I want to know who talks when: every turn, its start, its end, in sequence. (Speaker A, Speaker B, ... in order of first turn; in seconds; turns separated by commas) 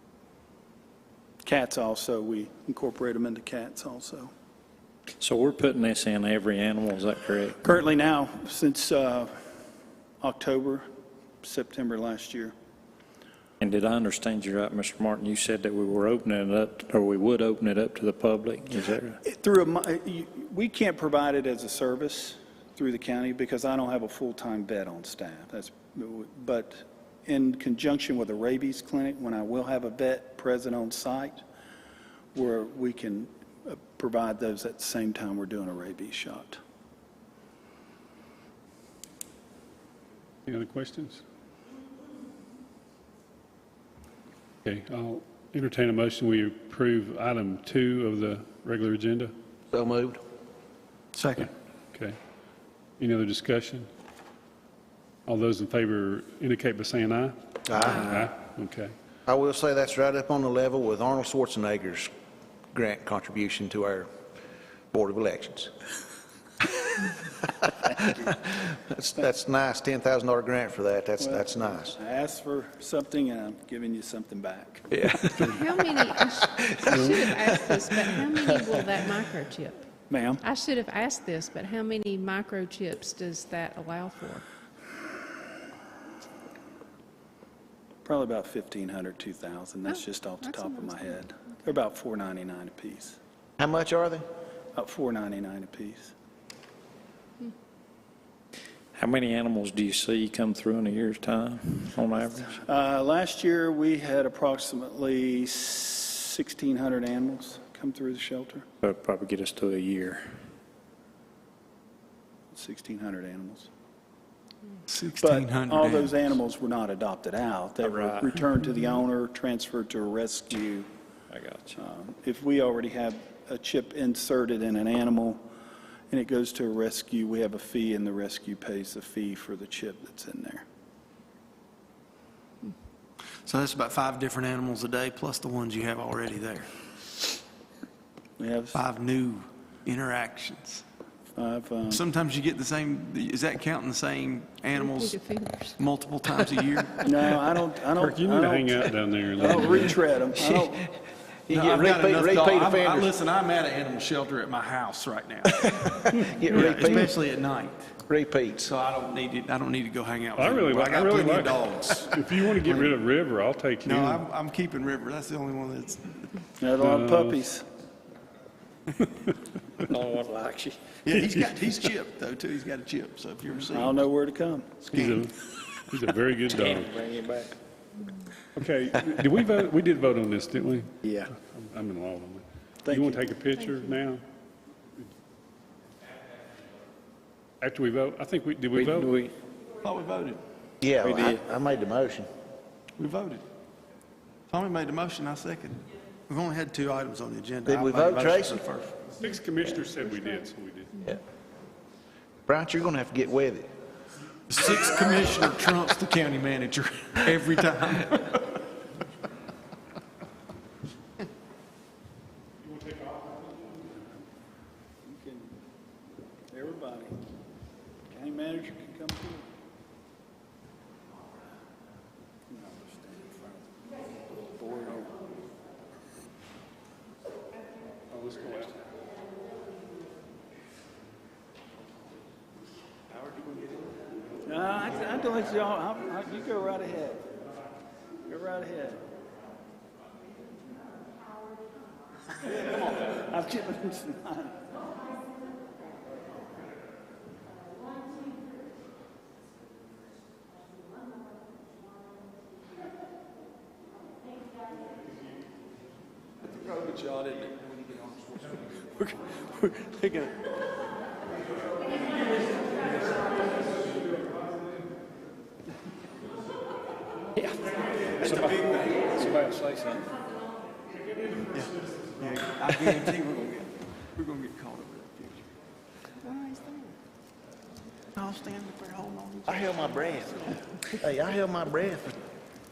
Speaker A: 1.4-4.3, Speaker B: 5.2-7.6, Speaker A: 7.6-9.3, Speaker A: 10.2-10.9, Speaker A: 11.4-12.5, Speaker B: 13.6-19.2, Speaker A: 19.2-31.4, Speaker A: 32.3-36.6, Speaker C: 40.5-41.2, Speaker C: 44.6-49.3, Speaker D: 49.7-50.2, Speaker E: 51.1-51.5, Speaker C: 53.0-53.9, Speaker C: 55.3-58.9, Speaker D: 57.7-58.3, Speaker D: 59.3-62.1, Speaker D: 62.7-64.1, Speaker D: 64.9-65.7, Speaker D: 67.0-72.0, Speaker A: 71.2-74.9, Speaker D: 74.9-78.4, Speaker F: 75.4-79.8, Speaker C: 76.9-77.2, Speaker A: 80.1-80.4, Speaker F: 80.4-84.4, Speaker A: 88.0-93.2, Speaker F: 89.9-91.1, Speaker D: 93.6-94.2, Speaker A: 94.7-96.1, Speaker B: 98.9-102.6, Speaker A: 102.6-108.7, Speaker B: 108.8-110.4, Speaker A: 112.5-113.7, Speaker E: 114.9-116.3, Speaker A: 115.2-120.9, Speaker B: 117.8-118.2, Speaker B: 121.3-121.7, Speaker A: 121.7-125.4, Speaker A: 126.1-130.6, Speaker E: 133.4-136.7, Speaker A: 138.4-138.8, Speaker E: 138.7-140.8, Speaker A: 141.3-142.0, Speaker E: 141.9-145.2, Speaker F: 144.7-145.8, Speaker E: 145.8-147.3, Speaker A: 147.0-150.9, Speaker C: 148.0-150.0, Speaker E: 151.5-157.9, Speaker D: 151.5-153.1, Speaker D: 156.2-157.2, Speaker D: 158.1-158.7, Speaker E: 158.6-163.0, Speaker C: 160.4-164.2, Speaker E: 163.8-166.4, Speaker A: 166.6-167.6, Speaker C: 166.8-167.4, Speaker B: 169.9-171.0, Speaker E: 171.0-174.0, Speaker A: 173.7-174.8, Speaker C: 174.9-175.3, Speaker E: 174.9-175.3, Speaker C: 175.9-176.9, Speaker B: 176.6-177.5, Speaker C: 178.5-184.2, Speaker B: 181.0-181.3, Speaker A: 182.8-183.3, Speaker C: 187.6-189.1, Speaker B: 188.7-189.3, Speaker E: 189.8-190.4, Speaker D: 190.8-192.3, Speaker B: 191.0-191.4, Speaker E: 193.0-193.4, Speaker E: 194.5-199.2, Speaker D: 197.6-198.6, Speaker C: 199.2-201.0, Speaker D: 202.5-203.7, Speaker E: 204.5-208.6, Speaker C: 212.7-213.4, Speaker A: 215.0-215.6, Speaker A: 216.5-217.2, Speaker A: 218.1-219.5, Speaker A: 222.5-223.8, Speaker A: 224.5-225.1, Speaker C: 228.1-228.7, Speaker A: 234.4-237.3, Speaker A: 238.2-239.0, Speaker A: 242.4-244.6, Speaker E: 242.6-243.1, Speaker E: 256.4-260.4, Speaker B: 268.2-270.1, Speaker E: 268.2-269.1, Speaker E: 271.5-275.5, Speaker F: 276.2-276.9, Speaker E: 278.1-279.9, Speaker D: 279.5-282.2